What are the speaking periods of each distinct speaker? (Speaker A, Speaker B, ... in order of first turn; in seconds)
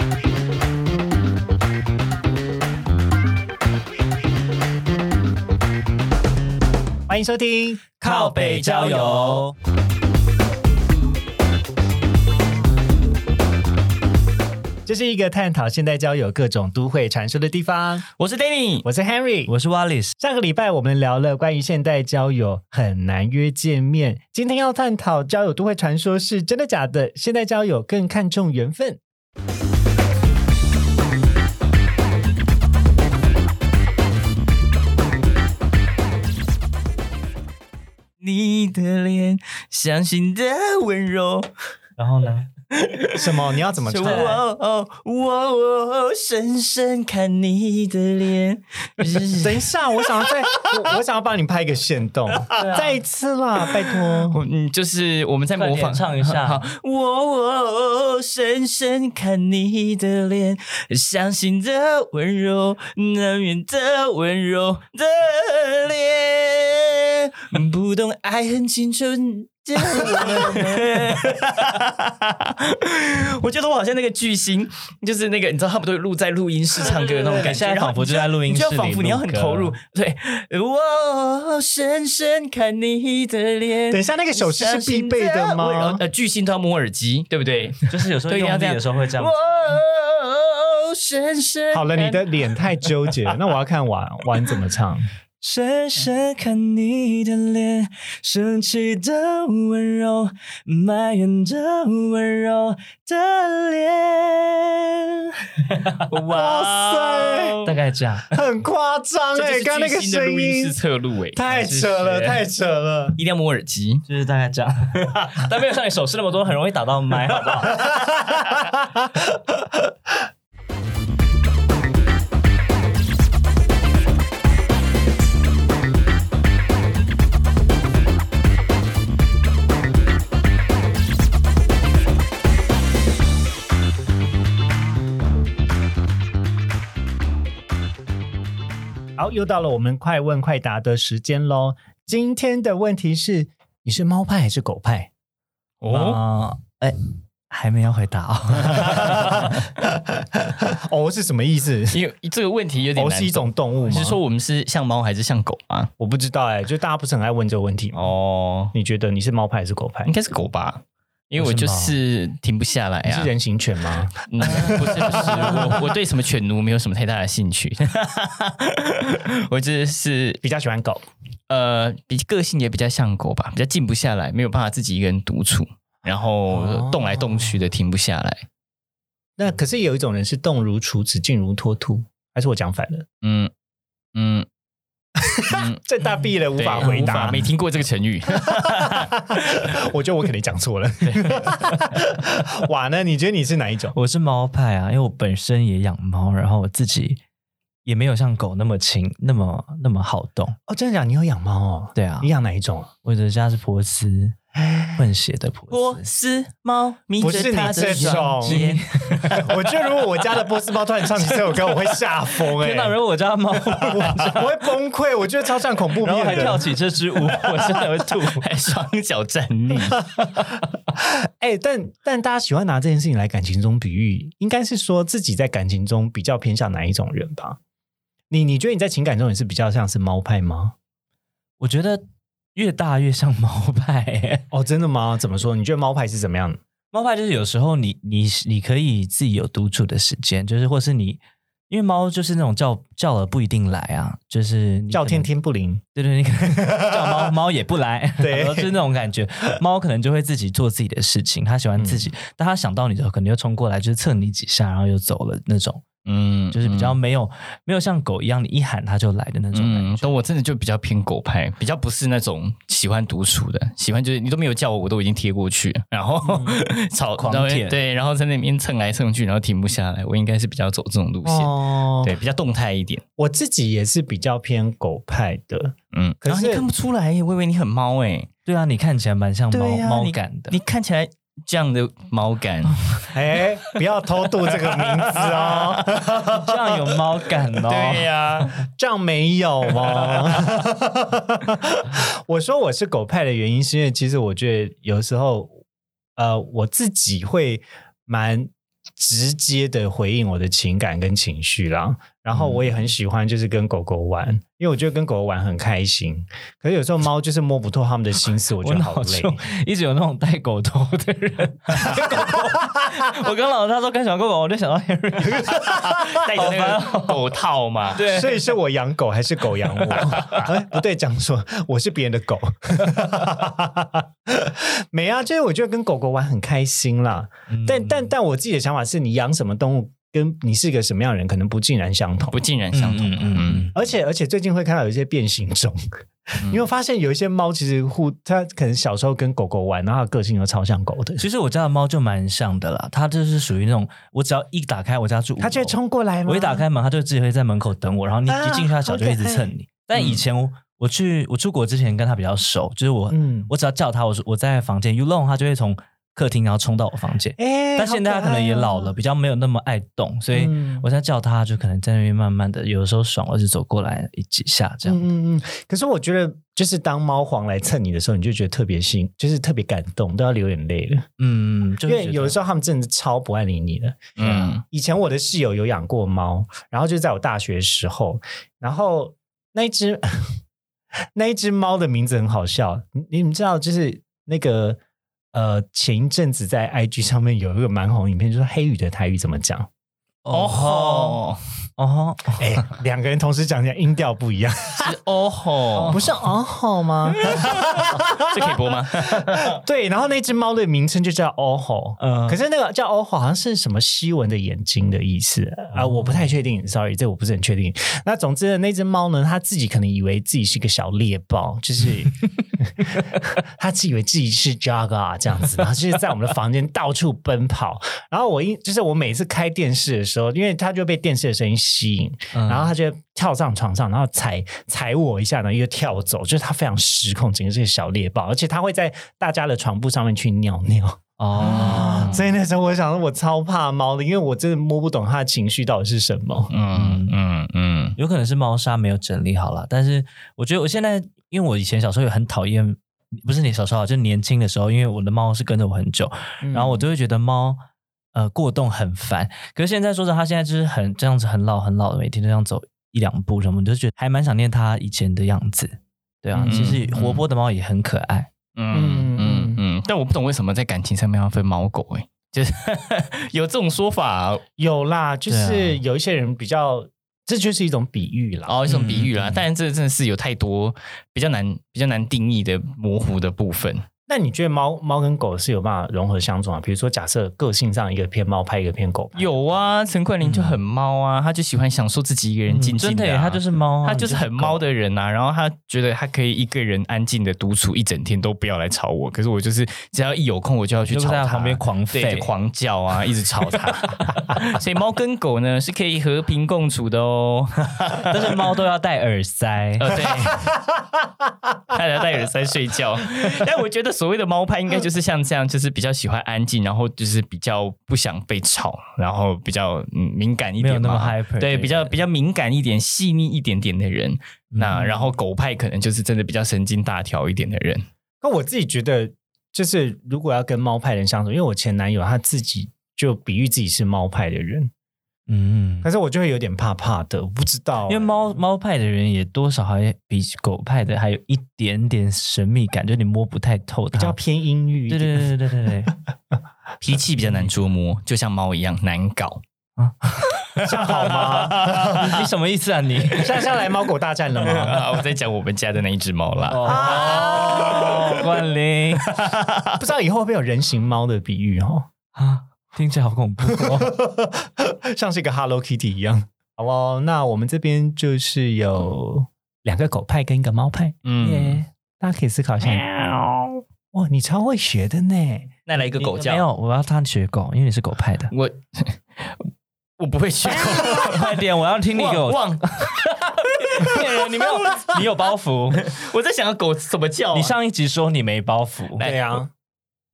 Speaker A: 7.1-7.9, 14.9-18.1, 18.8-19.5, 20.2-29.0, 43.1-44.4, 49.4-54.4, 83.9-86.0, 91.7-95.1, 106.3-107.6, 108.3-110.8, 111.3-113.2, 117.7-118.8, 139.2-145.1, 148.8-152.0, 152.9-154.2, 156.0-158.1, 158.7-160.1, 163.0-165.7, 170.4-171.0, 176.5-177.5, 179.4-183.1, 185.2-187.5, 188.4-193.9, 200.7-202.9, 204.7-205.0, 207.2-208.7, 209.3-213.0, 213.7-216.7, 220.9-227.6, 228.3-230.7, 234.5-236.6, 244.9-245.8, 246.7-247.0, 248.2-248.8, 251.8-252.1, 266.2-266.6, 271.2-272.1, 273.2-276.7, 283.1-286.9, 288.5-295.6, 296.2-309.4, 311.9-312.5, 318.1-332.4, 333.7-335.8, 336.3-341.3, 345.4-346.7, 348.3-349.5, 353.1-353.5, 357.4-358.9, 360.3-360.9, 364.9-371.1, 371.9-380.4, 381.1-384.8, 385.3-389.7, 392.4-394.9, 395.9-398.4, 399.1-436.5, 446.4-446.9, 456.3-456.7, 458.7-459.6, 464.6-468.6, 474.1-479.3, 518.2-524.7, 525.8-528.3, 533.9-535.3, 540.6-542.1, 543.1-544.8, 546.6-548.2, 549.8-551.9, 553.5-561.0, 562.0-562.9, 563.9-565.5, 579.0-579.5
Speaker B: 8.0-9.4, 18.2-18.9, 38.2-41.5, 42.7-50.8, 54.3-93.5, 106.1-107.8, 109.3-111.4, 113.2-114.0, 145.8-146.2, 148.8-149.2, 151.9-155.9, 157.9-158.7, 160.1-163.3, 164.2-170.4, 171.5-178.4, 183.2-183.5, 184.2-184.5, 185.5-185.8, 186.6-189.6, 191.0-191.9, 205.7-209.5, 216.3-216.5, 217.3-220.1, 256.1-257.0, 259.5-273.0, 275.9-278.3, 279.5-283.1, 284.5-286.0, 287.5-288.6, 315.3-318.0, 320.0-320.4, 332.3-333.7, 349.9-350.2, 374.2-374.6, 390.3-391.4, 394.8-396.0, 397.2-399.6, 431.5-431.9, 436.5-438.0, 456.4-457.2, 458.6-464.4, 468.5-473.8, 479.1-498.4, 499.8-500.4, 501.7-517.8, 536.8-539.4, 540.6-542.2, 544.4-548.3, 549.0-549.8, 561.0-561.6, 565.7-566.5, 568.3-569.5, 570.0-575.0, 575.8-577.5, 579.0-579.4
Speaker C: 8.0-9.6, 19.5-20.1, 42.0-42.5, 44.0-44.4, 52.5-53.0, 55.5-56.6, 70.2-71.2, 76.8-79.7, 87.9-89.3, 95.4-106.1, 107.6-108.4, 111.5-112.4, 114.1-117.8, 145.9-149.6, 161.4-162.0, 165.2-165.8, 186.8-187.5, 193.9-197.2, 197.8-200.6, 201.9-202.3, 203.0-204.4, 204.9-206.0, 207.7-209.5, 212.4-214.7, 216.0-218.4, 231.6-232.0, 232.5-234.4, 236.9-245.3, 246.0-255.8, 256.5-260.2, 267.2-267.8, 278.5-280.6, 286.3-288.1, 308.6-317.4, 317.9-318.6, 327.5-328.1, 332.7-333.7, 341.2-365.1, 371.2-372.4, 374.2-374.6, 390.2-391.2, 391.8-392.6, 395.7-396.3, 402.0-402.4, 405.7-406.2, 422.3-422.7, 431.2-432.3, 436.7-437.1, 438.0-447.6, 448.1-458.3, 465.3-465.8, 468.7-469.4, 480.2-480.6, 482.5-484.6, 490.9-492.3, 498.1-499.9, 510.6-512.0, 514.5-514.9, 525.3-525.9, 527.9-534.2, 534.9-535.9, 539.8-543.5, 546.5-549.2, 552.1-553.9, 561.2-561.7, 562.6-563.6, 565.8-568.3, 570.5-575.9, 577.3-579.0